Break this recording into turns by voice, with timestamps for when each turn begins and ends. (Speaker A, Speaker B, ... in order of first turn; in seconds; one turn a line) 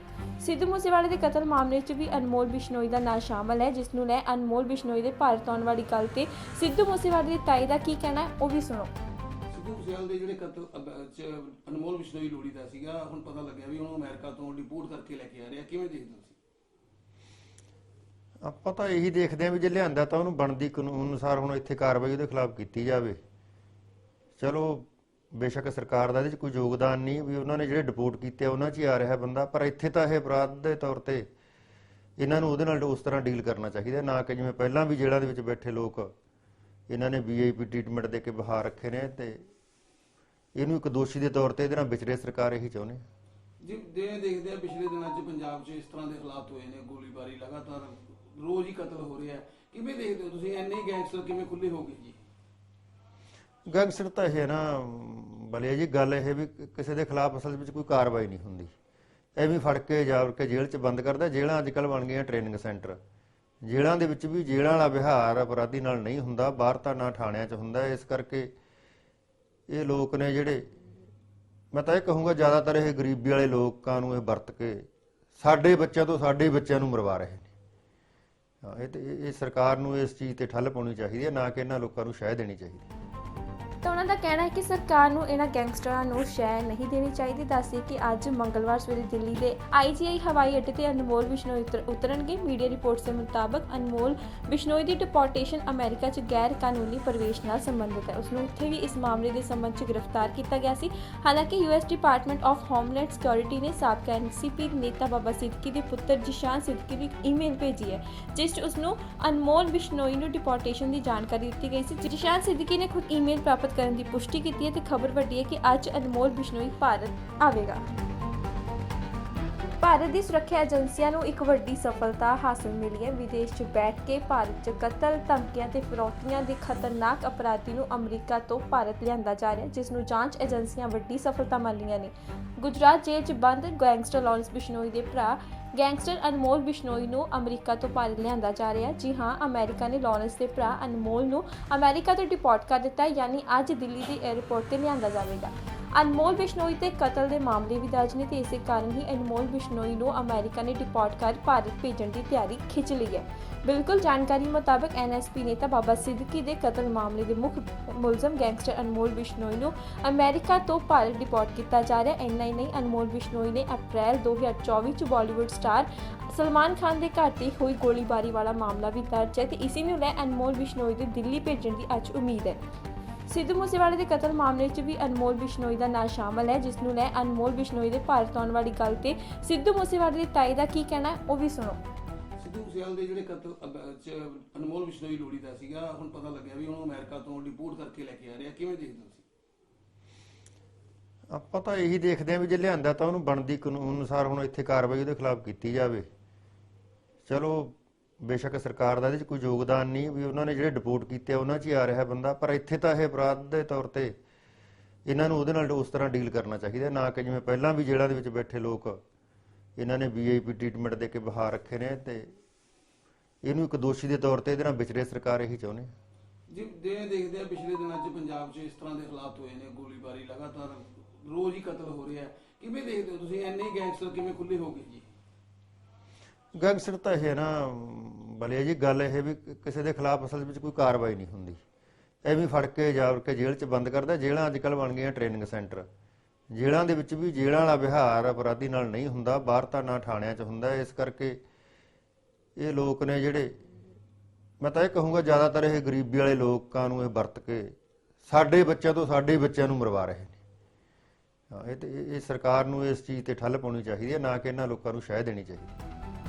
Speaker A: 0.4-8.9
Speaker B: 9.5-16.4
Speaker C: 18.4-23.2
Speaker C: 24.4-31.2
Speaker C: 32.2-36.1
Speaker C: 36.9-39.5
Speaker C: 40.5-43.0
Speaker B: 43.6-52.2
Speaker C: 53.7-58.7
Speaker C: 59.4-63.0
Speaker C: 63.6-68.5
Speaker C: 69.7-70.7
Speaker C: 71.7-77.5
Speaker C: 78.6-82.9
Speaker A: 83.8-117.8
Speaker A: 119.8-172.6
Speaker A: 173.3-181.8
Speaker B: 182.4-189.2
Speaker C: 191.3-196.1
Speaker C: 197.3-204.1
Speaker C: 205.1-209.0
Speaker C: 209.8-212.3
Speaker C: 213.4-215.9
Speaker B: 216.5-225.0
Speaker C: 226.5-231.6
Speaker C: 232.2-235.9
Speaker C: 236.5-241.4
Speaker C: 242.6-243.6
Speaker C: 244.6-247.7
Speaker C: 248.2-250.3
Speaker C: 251.5-255.7